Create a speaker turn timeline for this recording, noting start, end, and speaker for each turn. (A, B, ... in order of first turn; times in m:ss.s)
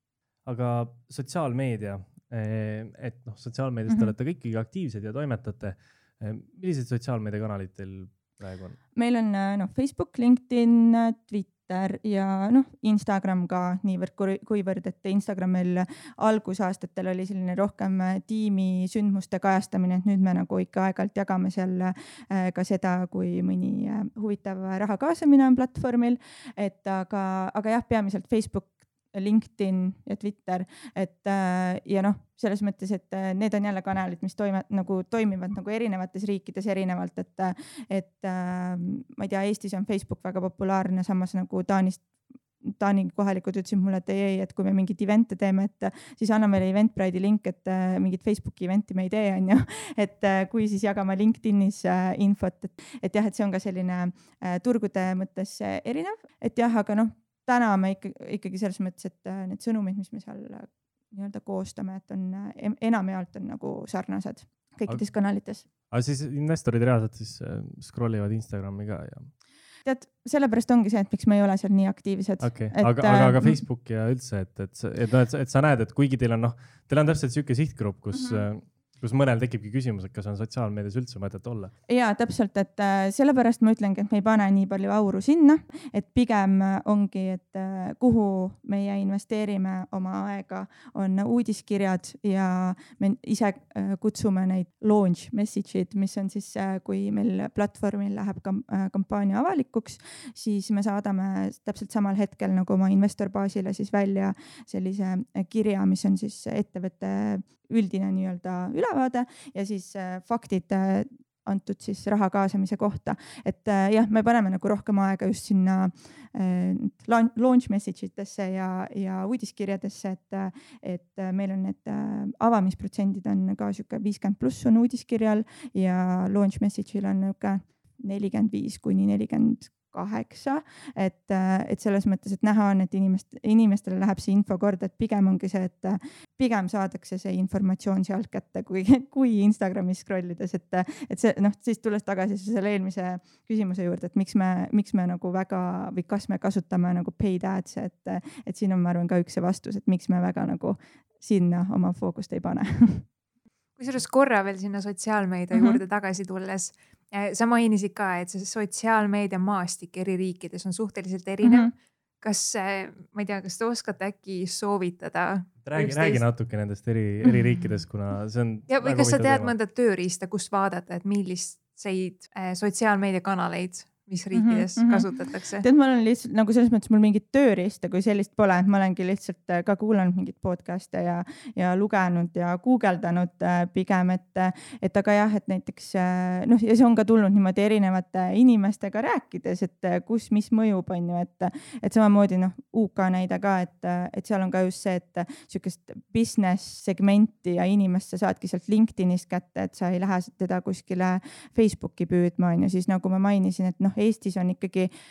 0:00.4-0:08.8 A
0:03.9-0:04.1 B
0:08.9-0:42.1 B
0:42.6-1:05.6 B
1:05.9-1:09.3 A
1:09.8-1:13.6 B
1:12.4-1:21.7 A
1:21.9-2:33.0 B
2:33.8-2:46.2 C
2:35.5-2:35.8 B
2:41.4-2:41.7 B
2:45.6-2:49.5 A
2:48.7-2:55.6 C
2:54.3-3:24.9 B